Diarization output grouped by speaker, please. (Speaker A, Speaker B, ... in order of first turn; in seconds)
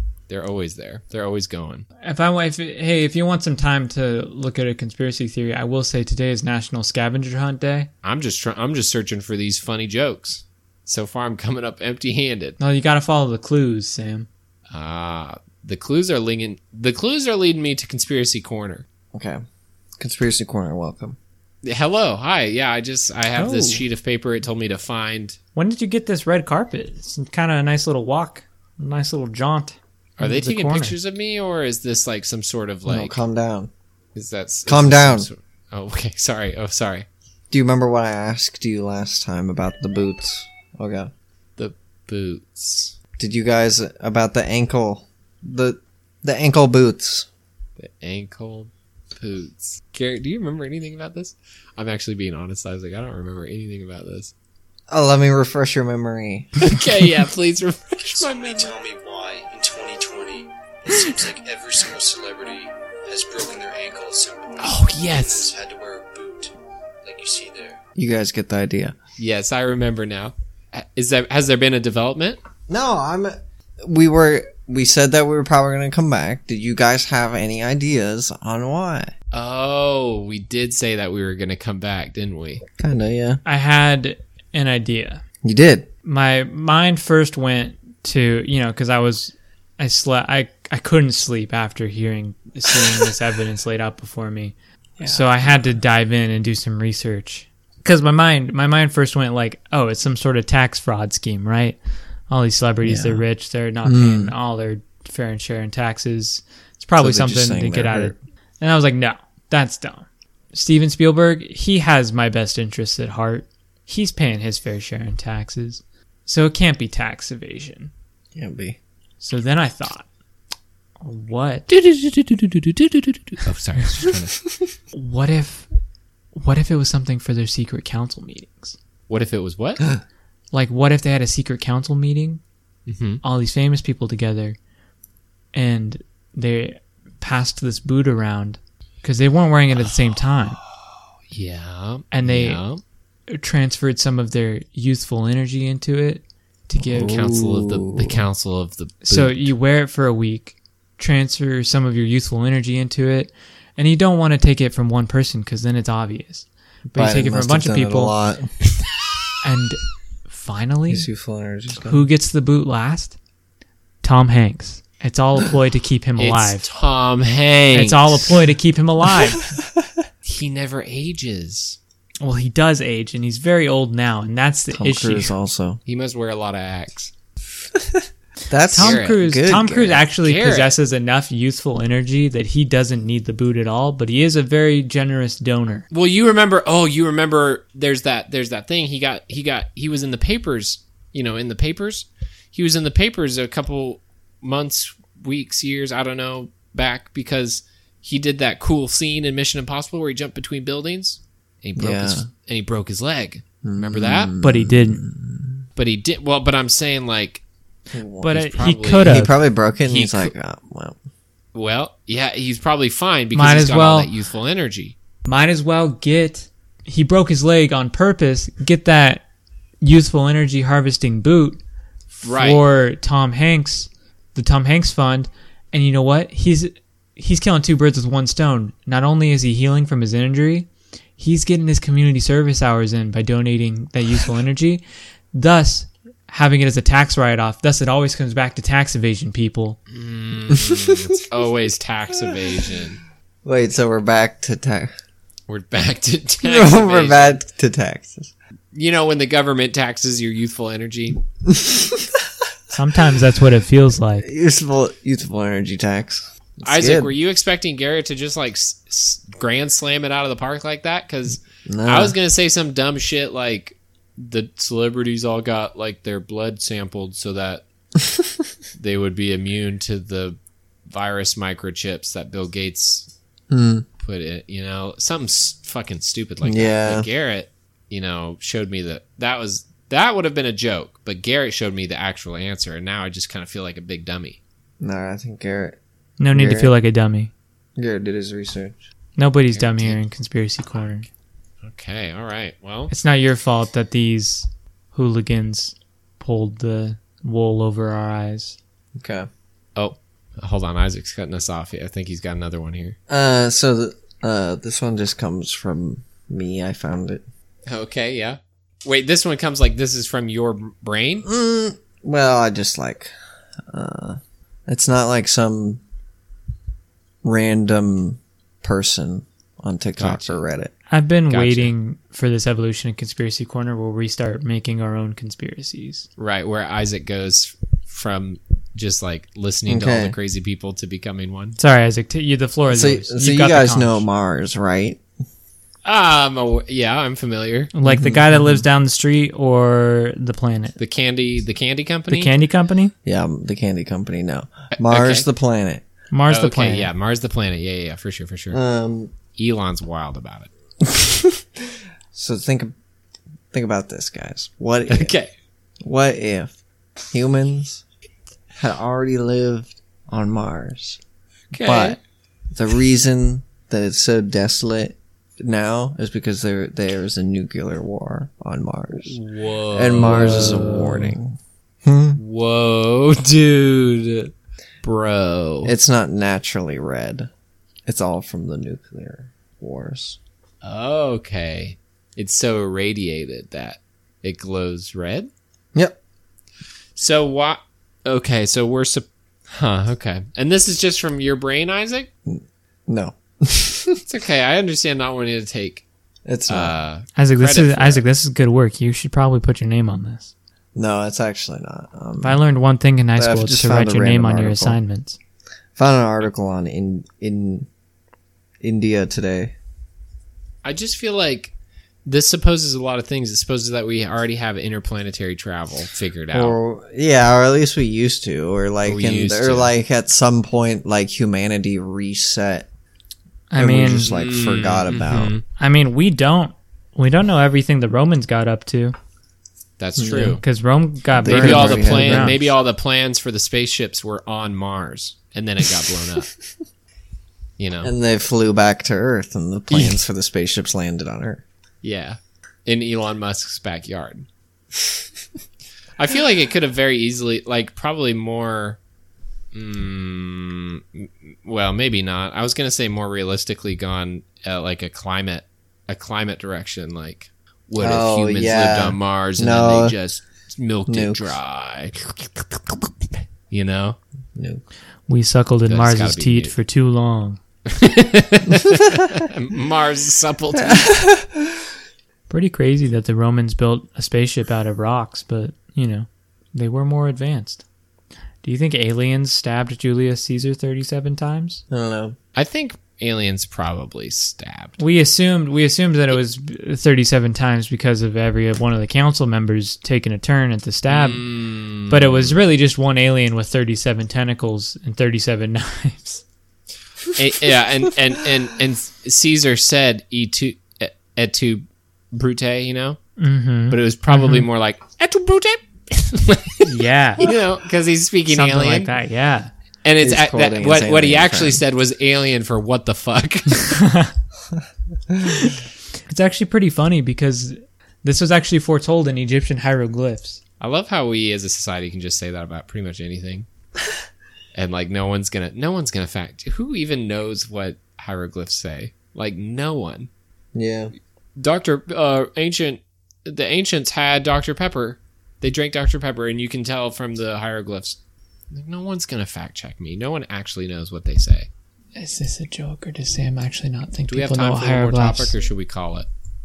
Speaker A: 0.3-1.9, 8.0-12.6, 14.7-18.9, 21.6-25.4, 30.2-33.2, 34.1-37.0, 41.6-42.9, 47.8-54.3, 56.6-58.8, 64.6-65.5, 69.2-72.4, 79.3-82.6, 121.7-124.4, 129.1-129.8, 132.9-133.2, 139.8-142.8, 146.9-149.5, 166.2-168.3, 170.2-171.8, 175.9-177.1, 178.7-179.2, 180.2-180.7, 185.9-204.3, 205.8-207.4, 208.3-209.3, 209.8-210.3, 211.5-214.9, 222.2-222.6, 239.9-243.0, 245.5-247.4, 248.7-251.2, 256.6-267.6, 268.8-270.4, 270.9-273.1, 274.0-284.4, 289.5-290.0, 291.6-292.9, 299.8-302.9, 307.7-311.2, 320.0-320.4, 321.3-321.7, 326.2-331.6, 335.8-337.7, 340.8-342.3, 344.8-345.2, 346.3-348.6, 349.4-350.5, 354.9-355.3, 361.5-362.0, 369.0-371.1, 372.1-374.3, 374.8-375.7, 380.6-385.3, 386.9-392.1, 394.0-395.8, 396.5-398.0, 410.6-411.5, 412.1-416.6, 418.8-419.7, 424.0-425.4, 429.8-430.4, 431.2-436.3, 437.6-437.9, 441.8-444.2, 446.0-448.8, 449.5-464.0, 465.7-466.5, 467.7-470.9, 482.3-484.8, 490.9-492.4, 497.1-503.0, 503.7-508.9, 509.8-513.8, 520.6-523.5, 524.5-530.1, 531.4-538.0, 538.5-541.5, 544.1-546.1
Speaker B: 2.0-7.9, 12.6-14.3, 23.4-23.8, 25.6-31.0, 83.4-85.2, 86.0-101.8, 102.3-117.9, 119.2-120.0, 121.0-121.7, 124.9-125.7, 126.3-128.7, 130.5-132.4, 133.2-134.6, 135.5-140.6, 142.1-142.6, 143.3-147.2, 149.0-158.1, 159.4-161.1, 161.8-163.2, 164.0-166.7, 167.7-169.5, 172.2-175.3, 178.7-185.8, 204.4-205.0, 208.2-209.3, 213.3-214.1, 215.2-219.2, 219.8-221.6, 222.2-239.8, 252.7-254.3, 286.2-287.3, 289.2-291.1, 292.9-298.6, 320.9-326.1, 331.6-334.0, 337.7-340.8, 342.1-342.9, 346.1-346.9, 397.1-400.3, 402.2-405.2, 423.5-424.1, 425.6-428.9, 430.1-432.4, 465.1-467.4, 472.3-477.6, 478.4-481.6, 484.8-491.2, 491.9-496.2, 503.2-504.4, 506.6-507.3, 508.3-509.5, 513.7-514.1, 516.1-520.4, 542.0-545.3
Speaker C: 19.1-19.4, 20.0-21.2, 32.9-33.7, 34.6-35.3, 37.5-41.1, 43.2-47.3, 54.9-56.7, 68.0-68.9, 72.7-79.1, 82.8-83.4, 85.4-85.9, 95.0-95.8, 102.8-103.2, 103.8-104.3, 107.0-108.2, 118.3-118.8, 146.9-148.2, 156.9-158.5, 160.9-162.1, 174.7-175.8, 177.7-180.1, 201.8-202.3, 203.6-205.6, 207.9-208.3, 209.0-211.0, 240.5-241.1, 243.4-244.9, 246.4-248.3, 251.4-252.2, 254.2-257.1, 261.6-262.1, 268.0-268.3, 273.5-273.9, 276.4-277.1, 284.8-285.8, 286.3-286.7, 287.8-288.8, 299.0-299.3, 303.1-307.2, 311.2-313.1, 313.7-315.8, 317.2-320.7, 329.7-330.1, 332.7-335.0, 337.8-338.6, 343.0-345.8, 348.5-349.1, 350.8-351.4, 352.1-352.7, 353.5-355.1, 355.8-356.5, 357.1-357.8, 358.6-361.0, 361.6-362.0, 362.5-369.2, 369.7-372.2, 375.6-377.3, 377.9-380.2, 392.2-394.0, 396.2-396.7, 400.7-402.4, 403.2-404.8, 405.8-407.7, 408.6-409.5, 416.3-422.7, 423.6-425.3, 430.0-430.4, 431.1-432.4, 437.8-441.4, 457.8-459.9, 460.9-461.3, 464.4-464.6, 470.6-471.6, 481.7-482.1, 510.0-511.6, 515.1-515.4, 530.5-530.9
Speaker D: 58.0-66.5, 67.0-67.8